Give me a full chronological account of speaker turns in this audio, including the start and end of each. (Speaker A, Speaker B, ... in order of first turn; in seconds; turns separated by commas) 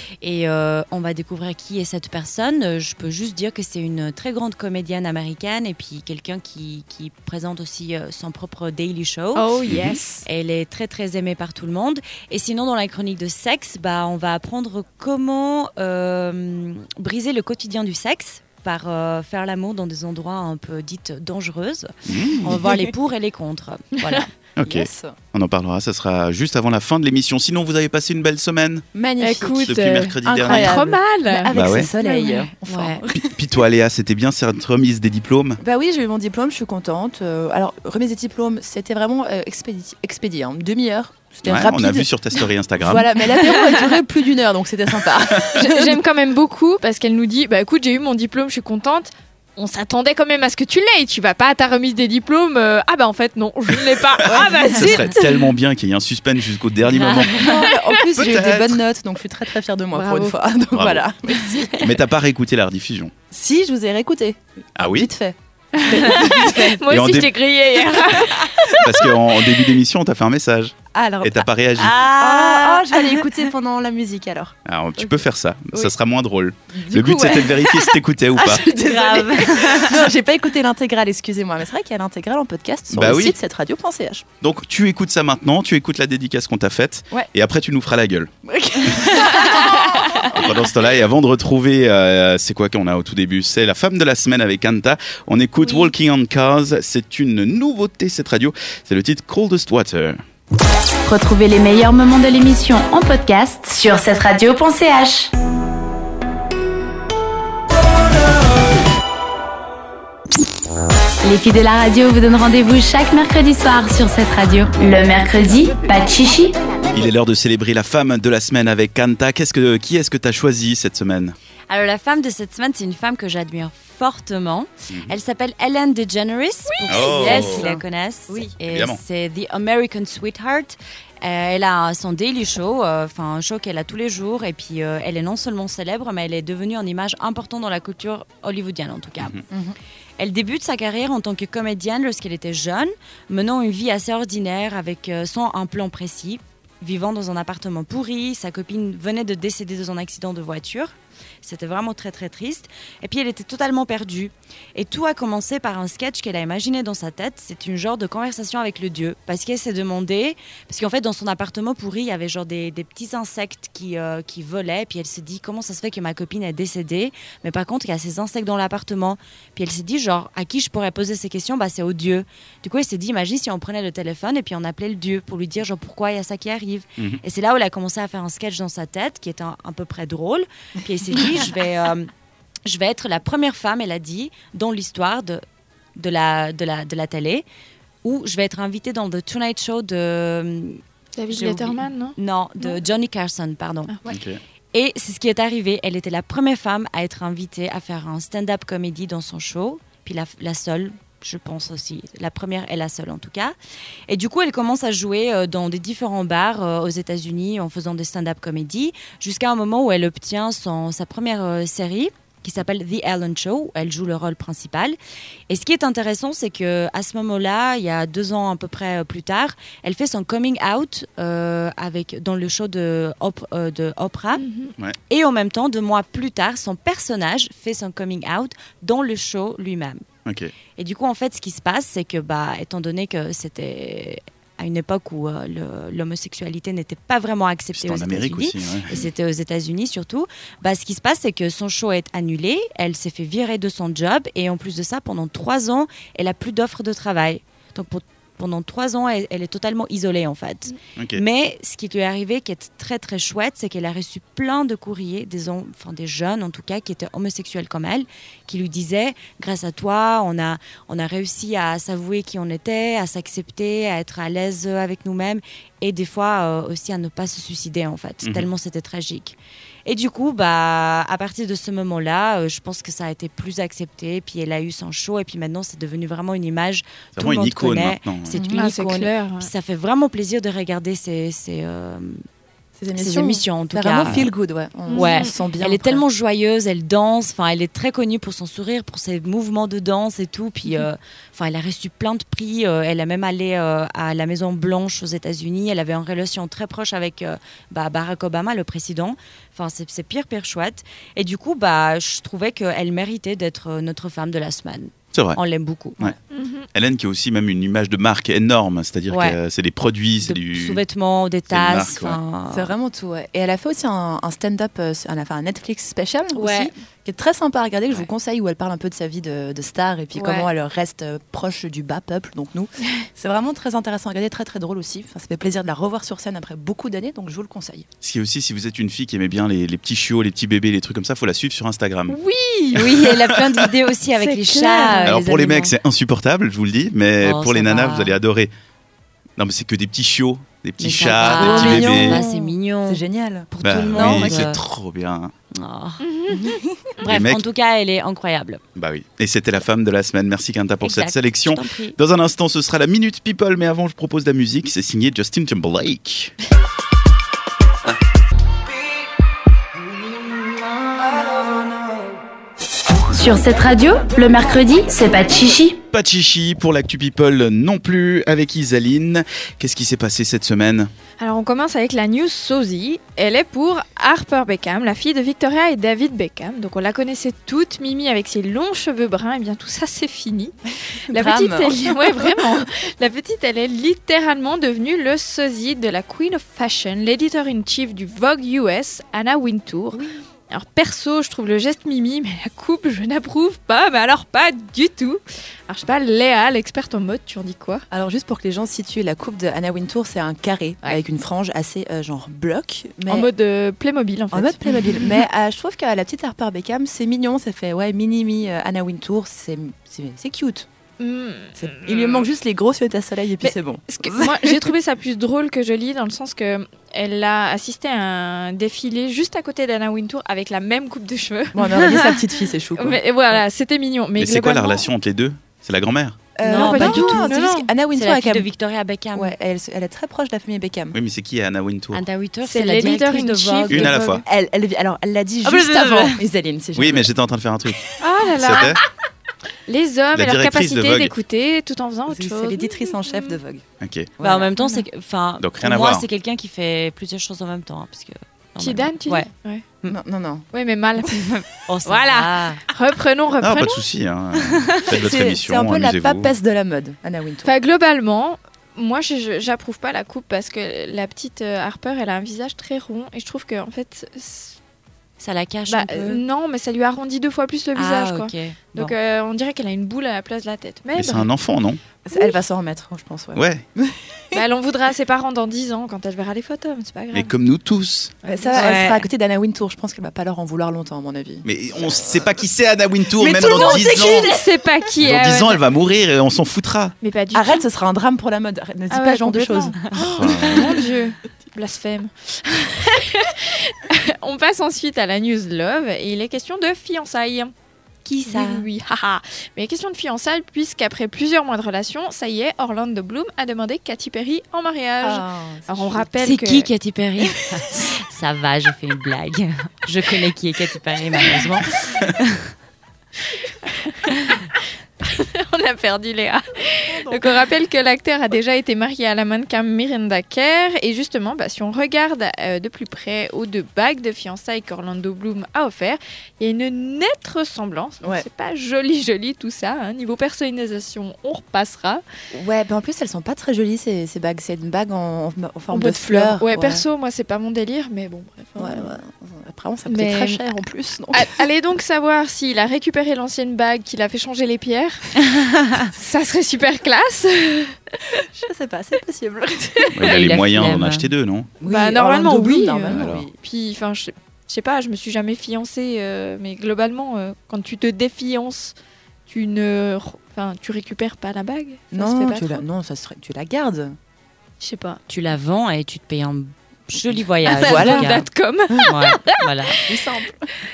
Speaker A: 0.2-9.5, Speaker B: 9.3-10.2, Speaker A: 10.2-24.3, Speaker C: 22.1-22.6, Speaker C: 24.6-28.8, Speaker D: 24.6-25.2, Speaker D: 28.9-33.3, Speaker B: 29.2-33.1, Speaker C: 29.6-30.8, Speaker C: 31.5-31.9, Speaker A: 32.7-32.9, Speaker C: 33.1-35.6, Speaker D: 35.6-42.1, Speaker C: 41.4-43.0, Speaker D: 42.8-46.0, Speaker B: 43.5-43.8, Speaker B: 45.5-55.5, Speaker D: 54.2-55.1, Speaker C: 54.2-57.5, Speaker A: 56.9-57.6, Speaker D: 57.3-61.9, Speaker C: 58.1-58.8, Speaker B: 59.9-60.4, Speaker C: 60.7-61.0, Speaker C: 61.8-63.1, Speaker D: 63.3-66.9, Speaker C: 64.8-65.1, Speaker B: 65.8-68.8, Speaker C: 66.9-67.3, Speaker C: 68.8-72.0, Speaker D: 70.9-71.5, Speaker A: 71.8-73.2, Speaker D: 72.1-74.5, Speaker C: 74.7-78.6, Speaker D: 76.7-77.7, Speaker D: 78.3-84.2, Speaker A: 78.9-80.0, Speaker C: 82.9-83.3, Speaker C: 84.4-88.3, Speaker D: 88.5-90.5, Speaker C: 90.2-100.2, Speaker E: 101.0-105.3, Speaker E: 111.2-116.5, Speaker C: 116.9-121.3, Speaker A: 121.7-139.4, Speaker C: 124.9-125.1, Speaker C: 126.9-127.7, Speaker B: 127.2-127.5, Speaker D: 127.3-127.8, Speaker D: 128.3-128.6, Speaker C: 128.6-129.0, Speaker D: 139.5-139.8, Speaker A: 140.2-182.1, Speaker A: 182.6-185.4, Speaker A: 185.9-187.4, Speaker A: 188.0-193.9, Speaker B: 191.2-192.8, Speaker C: 194.1-194.4, Speaker A: 194.7-203.5, Speaker A: 204.1-214.9, Speaker A: 215.5-224.4, Speaker B: 224.4-224.7, Speaker A: 225.1-230.0, Speaker C: 230.2-230.5, Speaker A: 230.8-282.2, Speaker C: 237.7-239.0, Speaker C: 250.9-251.2, Speaker C: 268.2-268.5, Speaker C: 277.1-278.3, Speaker D: 278.3-278.7, Speaker B: 278.6-279.5, Speaker D: 282.8-286.0, Speaker A: 282.9-284.3, Speaker B: 284.9-285.4, Speaker A: 284.9-306.1, Speaker B: 306.3-306.7, Speaker C: 306.7-310.8, Speaker A: 309.1-309.4, Speaker A: 310.2-312.7, Speaker C: 311.5-312.2, Speaker D: 312.5-327.9, Speaker A: 316.4-316.7, Speaker B: 320.1-320.4, Speaker C: 328.0-332.2, Speaker B: 332.1-332.7, Speaker C: 332.7-333.6, Speaker A: 332.7-335.8, Speaker B: 334.2-335.1, Speaker D: 334.4-335.0, Speaker C: 335.1-338.5, Speaker A: 337.2-338.2, Speaker C: 339.4-342.2, Speaker A: 340.8-344.6, Speaker D: 341.2-344.5, Speaker C: 343.6-345.3, Speaker A: 345.5-346.0, Speaker B: 346.0-346.6, Speaker A: 347.0-348.6, Speaker C: 347.0-347.4, Speaker C: 348.8-356.3, Speaker A: 350.8-352.0, Speaker E: 363.1-365.8, Speaker C: 365.9-370.9, Speaker B: 371.2-380.5, Speaker D: 381.1-382.7, Speaker B: 381.1-397.8, Speaker D: 397.9-403.3, Speaker B: 403.1-405.0, Speaker D: 404.3-410.7, Speaker B: 411.0-412.3, Speaker D: 411.6-414.7, Speaker B: 413.4-422.1, Speaker D: 421.5-423.0, Speaker B: 422.8-424.9, Speaker C: 424.2-426.3, Speaker D: 426.4-428.5, Speaker A: 426.4-429.3, Speaker B: 426.5-427.7, Speaker D: 429.1-430.9, Speaker C: 430.9-432.0, Speaker A: 431.9-434.2, Speaker B: 432.4-434.2, Speaker C: 433.7-434.2, Speaker D: 434.2-437.1, Speaker A: 435.4-436.2, Speaker C: 436.8-438.8, Speaker B: 438.0-438.8, Speaker B: 439.7-443.4, Speaker C: 440.1-441.1, Speaker D: 442.1-443.6, Speaker C: 443.8-444.1, Speaker D: 444.2-444.5, Speaker A: 444.2-449.3, Speaker C: 445.4-446.1, Speaker B: 448.6-449.6, Speaker D: 449.8-450.4, Speaker B: 450.5-451.3, Speaker A: 451.1-452.6, Speaker B: 451.9-453.8, Speaker C: 453.4-456.3, Speaker A: 454.4-454.8, Speaker D: 454.9-457.5, Speaker B: 457.4-464.6, Speaker A: 465.2-466.2, Speaker B: 465.7-471.3, Speaker A: 467.7-468.9, Speaker C: 470.9-471.8, Speaker D: 472.0-474.4, Speaker C: 473.4-473.6, Speaker B: 474.3-477.3, Speaker C: 477.1-478.1, Speaker B: 478.2-478.9, Speaker D: 478.2-482.4, Speaker A: 478.6-479.0, Speaker C: 481.4-484.3, Speaker B: 483.2-485.6, Speaker D: 483.5-484.2, Speaker C: 485.0-486.9, Speaker B: 487.0-487.6, Speaker D: 487.3-489.8, Speaker B: 488.9-497.5, Speaker C: 490.0-490.8, Speaker A: 498.1-498.6, Speaker B: 498.2-506.7, Speaker D: 505.0-506.1, Speaker A: 506.2-512.5, Speaker B: 513.3-514.1, Speaker B: 515.0-532.0, Speaker D: 516.8-517.4, Speaker D: 532.3-536.8, Speaker B: 535.7-539.0, Speaker D: 538.6-541.4, Speaker B: 539.9-540.4, Speaker B: 541.1-545.3, Speaker A: 545.4-545.9, Speaker B: 545.9-548.2, Speaker D: 548.2-550.0, Speaker C: 549.9-551.5, Speaker A: 550.0-551.1, Speaker D: 551.6-553.3, Speaker B: 551.6-558.7, Speaker C: 552.9-553.3, Speaker B: 559.3-562.6, Speaker D: 561.9-564.0, Speaker B: 564.6-565.0, Speaker A: 565.1-568.3, Speaker D: 567.4-569.0, Speaker B: 567.4-569.8, Speaker A: 568.8-569.8, Speaker D: 569.8-570.5